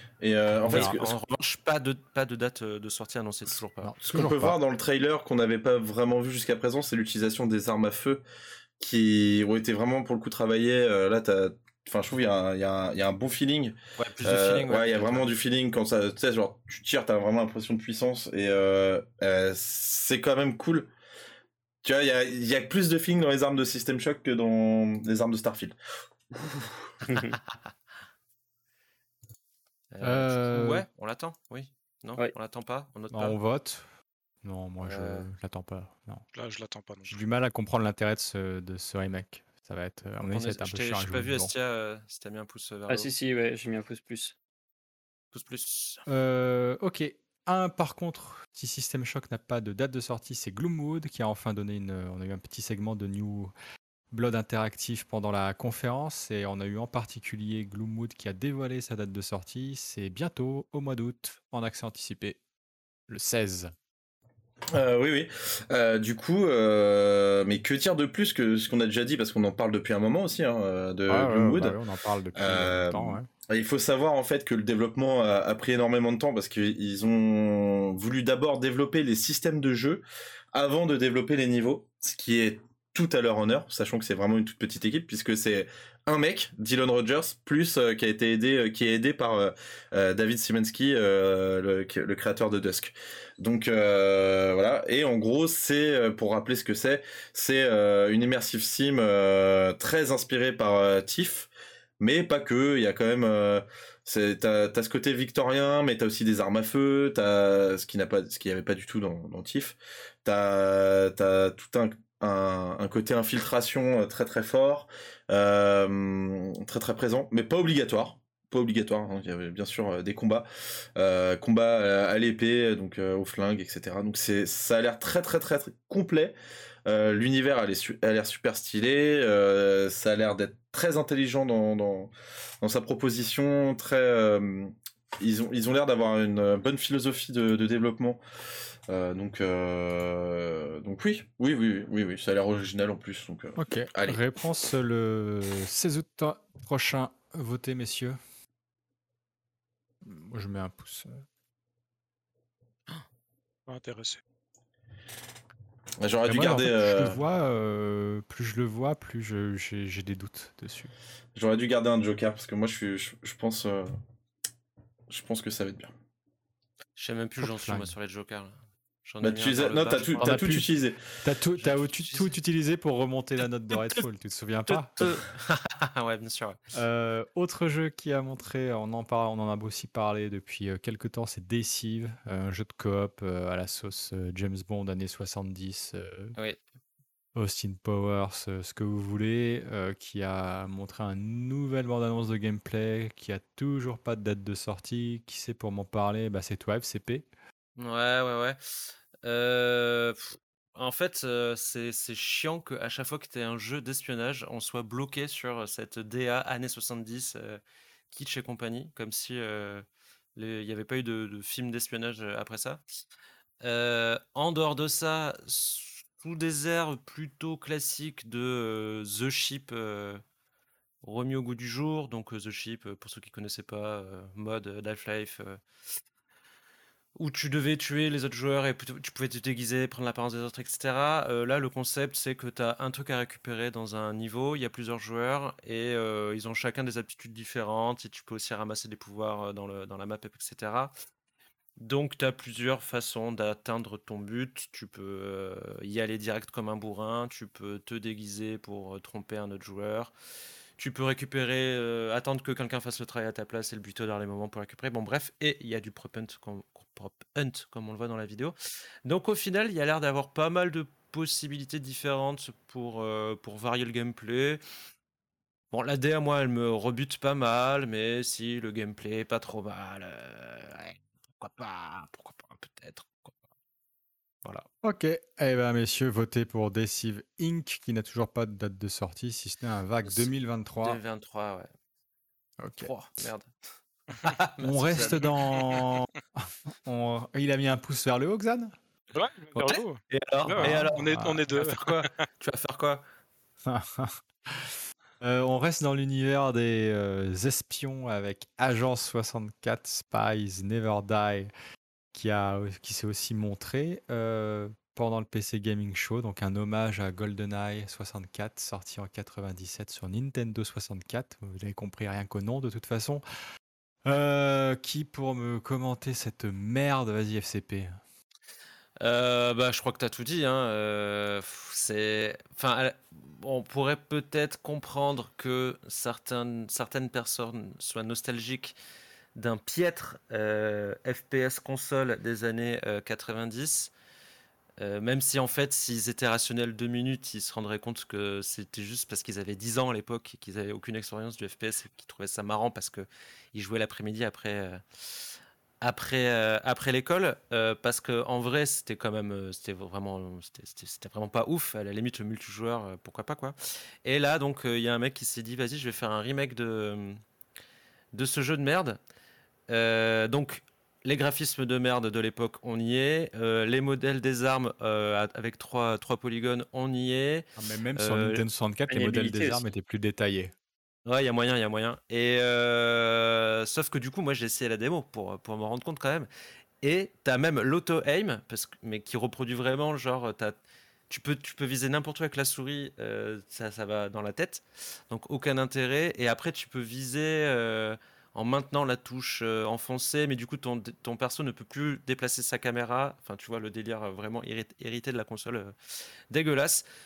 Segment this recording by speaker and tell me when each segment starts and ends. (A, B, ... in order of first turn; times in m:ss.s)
0:00.2-0:01.2 A
0:00.6-0:01.0 B
0:00.6-0:03.9 C
0:03.8-0:04.6 B
0:04.1-0:08.2 A
0:08.8-0:20.9 A
0:14.0-0:15.3 C
0:21.8-0:25.8 A
0:26.3-0:26.9 A
0:27.1-0:27.4 D
0:29.9-0:33.4 C
0:30.0-0:30.9 B
0:33.1-0:33.8 B
0:34.4-0:36.2 B
0:34.8-0:35.3 C
0:36.3-0:37.2 E
0:37.1-0:41.5 B
0:40.3-0:43.1 C
0:42.9-0:44.4 D
0:45.3-0:46.0 C
0:46.1-0:53.5 B
0:54.1-1:02.4 B
1:03.1-1:03.7 B
1:04.7-1:11.8 A
1:11.1-1:13.3 B
1:12.4-1:41.5 A
1:42.0-2:06.3 A
2:06.9-2:18.2 A
2:18.9-2:24.2 A
2:23.6-2:28.2 B
2:30.0-2:31.2 B
2:33.7-2:34.2 E
2:36.0-2:37.2 A
2:36.3-2:40.9 B
2:41.4-2:43.9 A
2:45.1-2:45.9 A
2:47.0-2:50.4 C
2:47.4-2:47.9 B
2:49.2-2:51.0 A
2:50.2-2:50.7 B
2:51.2-2:55.1 B
2:51.6-2:52.3 C
2:53.7-2:54.0 C
2:54.7-2:56.6 C
2:56.7-3:06.4 B
3:07.4-3:17.2 B
3:17.8-3:32.8 C
3:33.6-3:40.2 C
3:41.0-3:45.6 C
3:47.2-4:00.9 C
4:01.8-4:10.1 C
4:10.8-4:24.6 C
4:25.7-4:33.4 C
4:34.4-4:41.0 B
4:40.1-4:40.3 C
4:40.8-4:41.7 C
4:42.6-4:42.9 B
4:42.8-4:43.5 C
4:44.2-4:45.9 C
4:44.6-4:48.8 B
4:49.1-4:52.2 E
4:49.6-4:53.0 C
4:50.6-4:51.4 B
4:53.6-5:01.5 B
5:02.1-5:13.2 B
5:14.0-5:18.0 B
5:19.0-5:28.8 C
5:29.4-5:33.9 C
5:34.8-5:44.8 C
5:45.8-5:57.2 C
5:58.1-5:59.0 C
5:59.7-6:08.4 C
6:07.6-6:10.5 B
6:08.9-6:09.7 D
6:11.1-6:16.3 C
6:16.8-6:20.6 C
6:21.1-6:35.8 C
6:36.3-6:36.8 C